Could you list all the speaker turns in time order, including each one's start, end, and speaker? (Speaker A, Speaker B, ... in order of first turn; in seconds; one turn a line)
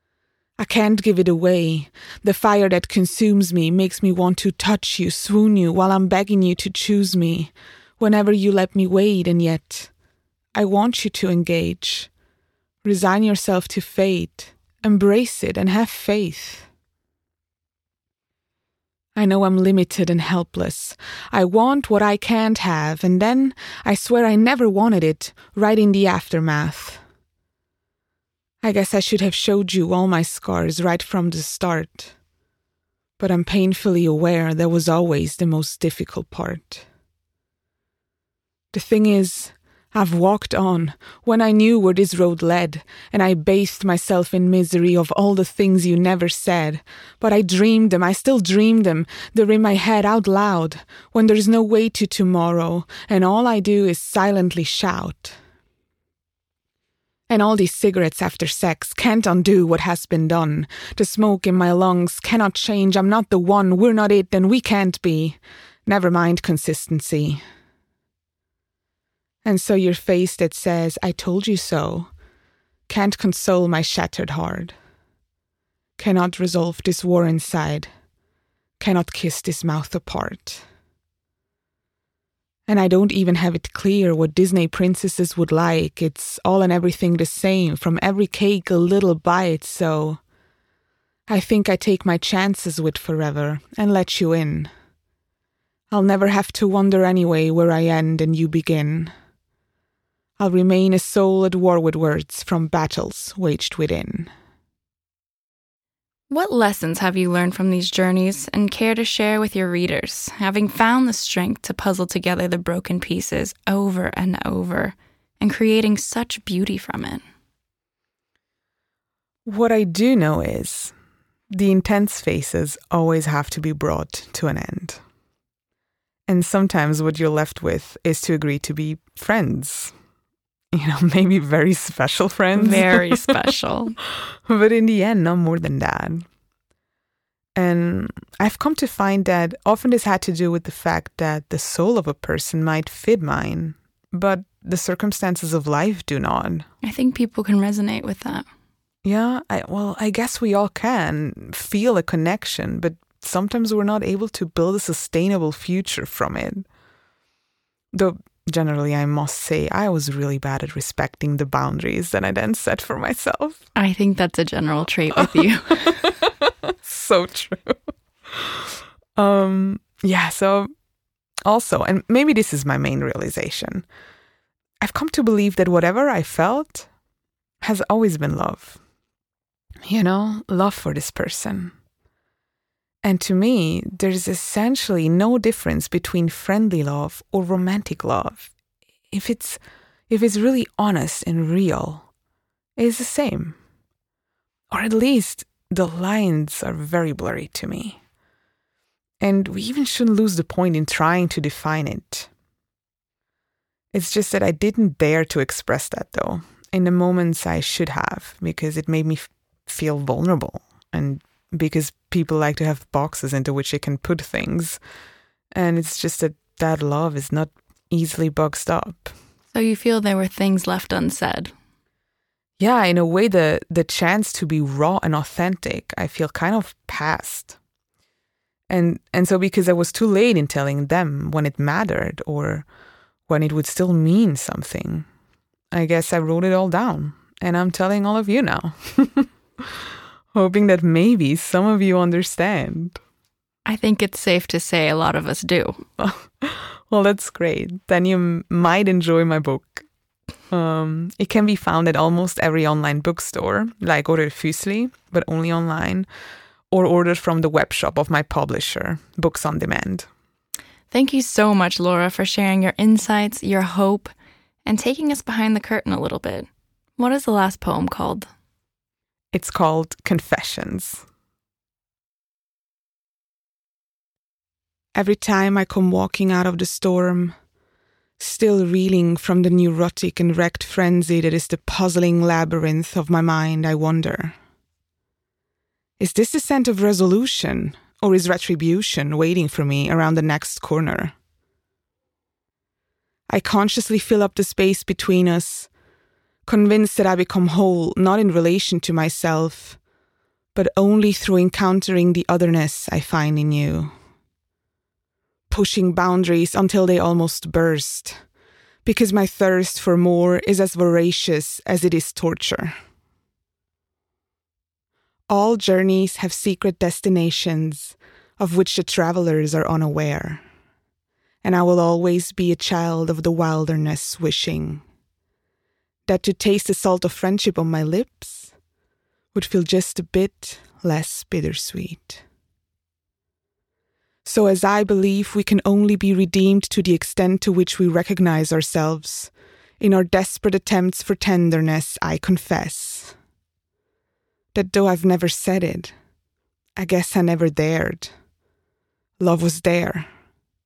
Speaker A: 0.6-9.9
Speaker A: 10.5-12.1
Speaker A: 12.8-16.7
Speaker A: 19.1-27.0
Speaker A: 28.6-32.1
Speaker A: 33.2-36.9
Speaker A: 38.7-55.4
Speaker A: 57.3-67.4
Speaker A: 69.4-72.1
Speaker A: 72.9-74.7
Speaker A: 76.0-77.9
Speaker A: 78.8-80.6
Speaker A: 82.7-90.2
Speaker A: 91.3-94.7
Speaker A: 95.9-99.1
Speaker A: 100.4-104.3
Speaker B: 106.3-117.2
Speaker A: 119.5-120.9
Speaker A: 121.5-125.0
Speaker A: 126.3-129.9
Speaker A: 130.7-133.4
Speaker B: 132.5-133.9
Speaker A: 134.4-136.2
Speaker A: 137.6-146.7
Speaker B: 146.8-148.4
Speaker A: 149.0-156.7
Speaker A: 157.9-163.6
Speaker B: 163.7-166.0
Speaker A: 165.7-167.8
Speaker A: 168.3-168.6
Speaker A: 169.2-170.7
Speaker A: 171.4-173.8
Speaker A: 174.8-176.9
Speaker A: 177.6-178.8
Speaker A: 179.8-181.7
Speaker A: 183.0-188.5
Speaker A: 189.1-189.6
Speaker A: 190.1-192.1
Speaker A: 192.8-193.6
Speaker A: 194.7-198.0
Speaker A: 199.2-202.3
Speaker A: 203.9-214.8
Speaker A: 215.5-219.1
Speaker B: 219.5-221.5
Speaker A: 222.6-227.6
Speaker A: 228.7-232.7
Speaker A: 233.3-235.1
Speaker A: 235.7-239.7
Speaker A: 240.3-243.0
Speaker B: 243.6-245.8
Speaker A: 246.0-249.8
Speaker A: 250.5-256.1
Speaker A: 256.7-260.1
Speaker B: 260.9-264.1
Speaker B: 264.6-268.3
Speaker A: 269.3-271.0
Speaker A: 274.9-277.3
Speaker A: 278.2-284.4
Speaker A: 286.0-291.1
Speaker A: 293.3-295.7
Speaker A: 296.4-299.8
Speaker A: 300.5-303.9
Speaker A: 305.5-308.2
Speaker A: 308.8-312.8
Speaker A: 315.3-320.4
Speaker A: 321.4-324.8
Speaker A: 326.1-328.5
Speaker A: 329.3-332.2
Speaker A: 334.2-343.1
Speaker A: 344.5-345.9
Speaker A: 346.8-348.1
Speaker A: 349.2-350.1